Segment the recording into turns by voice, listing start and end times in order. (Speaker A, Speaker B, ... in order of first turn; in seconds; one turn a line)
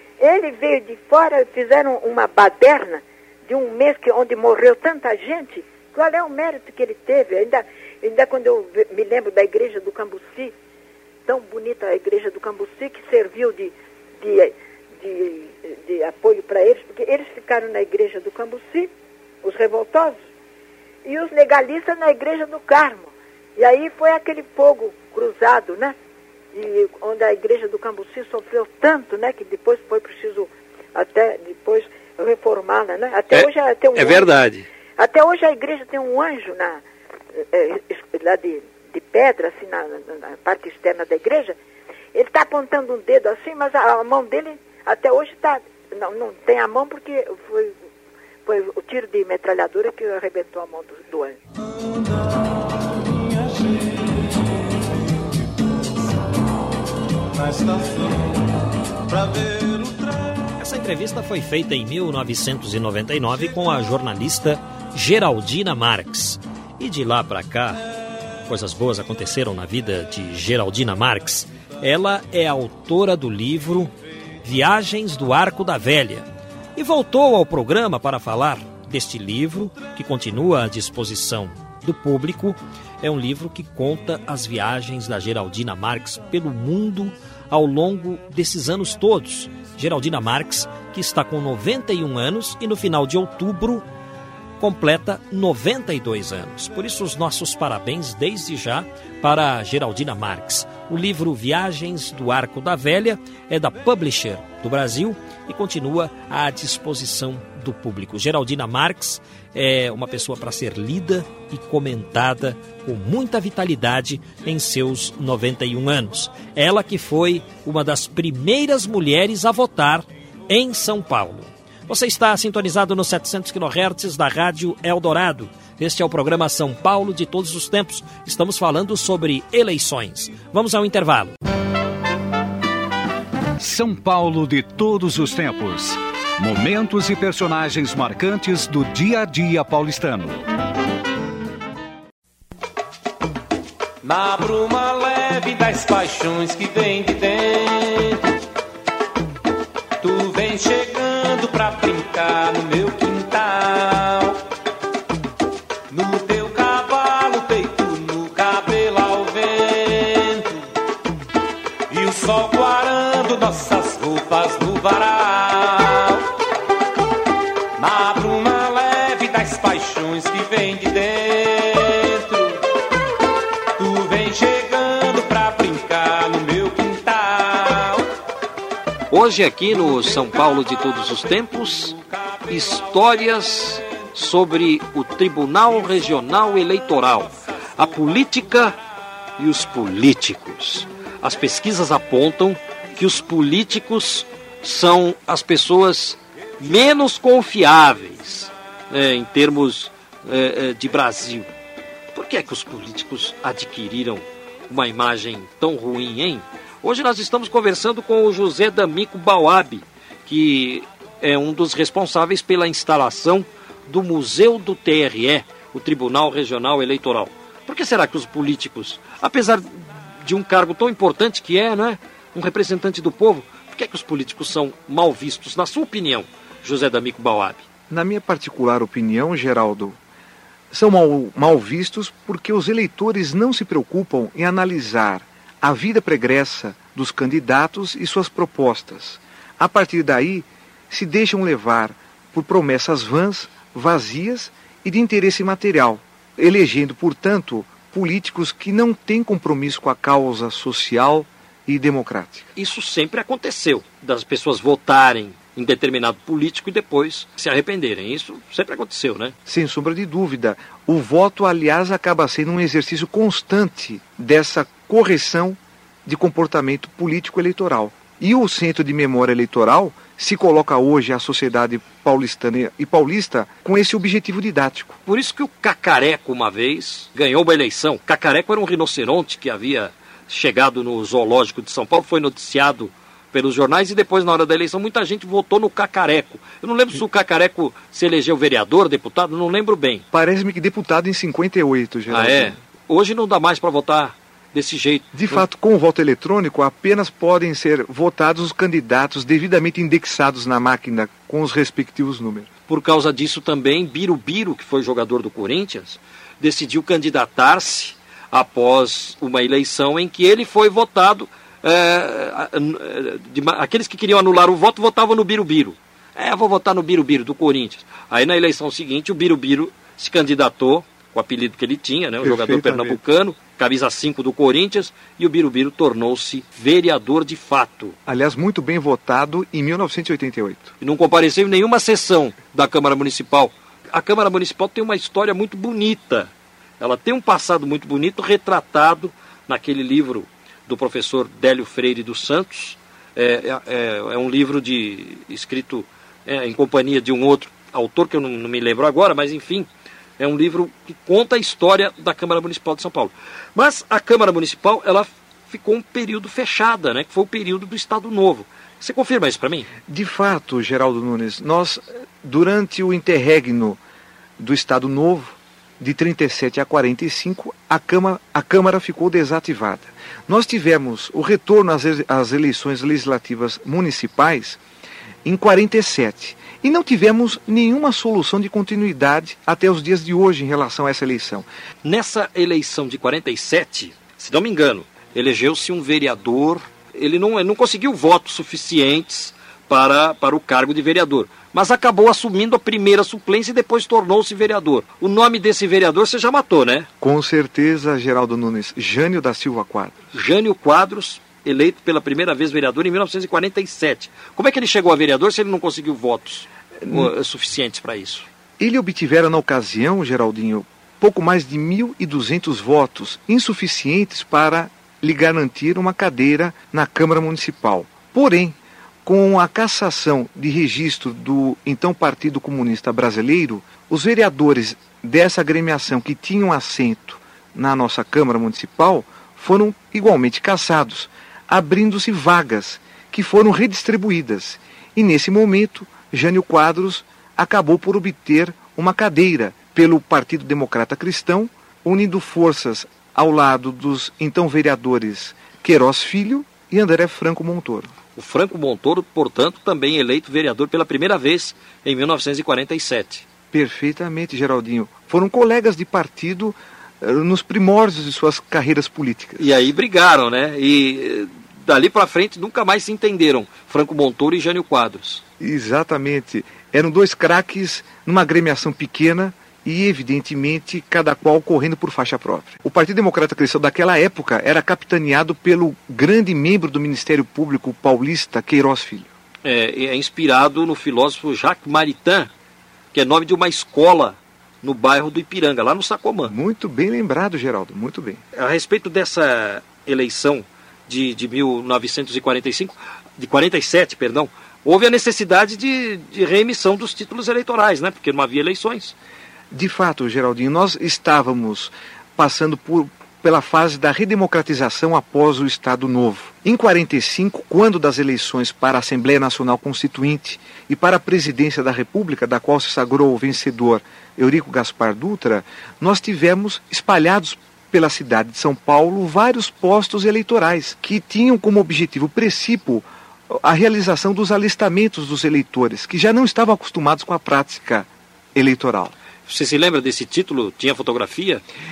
Speaker A: 0.2-10.5
Speaker A: 11.2-18.9
Speaker A: 19.4-20.1
Speaker A: 21.0-25.9
Speaker A: 26.5-34.3
Speaker B: 33.3-34.7
Speaker A: 35.0-36.8
Speaker A: 37.4-41.5
Speaker A: 42.1-47.7
Speaker A: 48.4-51.4
Speaker B: 60.6-67.8
Speaker B: 68.5-93.8
Speaker B: 94.6-131.4
Speaker C: 133.6-140.4
Speaker D: 144.0-148.2
Speaker D: 150.0-154.4
Speaker D: 155.9-160.6
Speaker D: 161.9-166.3
Speaker D: 167.8-172.6
Speaker D: 173.8-178.1
Speaker B: 179.1-182.0
Speaker B: 182.5-188.8
Speaker B: 189.4-201.5
Speaker B: 202.1-227.7
Speaker E: 227.9-230.0
Speaker E: 230.7-252.5
Speaker B: 252.6-259.4
Speaker E: 259.4-275.0
Speaker B: 275.1-290.0
Speaker E: 290.1-292.6
Speaker B: 292.1-295.4
Speaker E: 295.1-302.5
Speaker B: 302.7-327.9
Speaker E: 322.2-323.0
Speaker E: 328.1-330.7
Speaker B: 330.8-359.7
Speaker E: 359.9-363.8
Speaker E: 364.4-374.6
Speaker E: 375.2-381.4
Speaker B: 381.8-396.9
Speaker E: 397.0-400.0
Speaker B: 400.1-408.3
Speaker E: 406.8-407.1
Speaker E: 408.6-447.9
Speaker B: 448.1-453.2
Speaker E: 453.5-459.5
Speaker B: 459.4-465.2
Speaker E: 465.4-479.1
Speaker B: 479.4-482.3
Speaker B: 482.9-486.3
Speaker E: 486.3-488.2
Speaker B: 488.3-498.9
Speaker E: 499.5-528.9
Speaker B: 529.3-531.4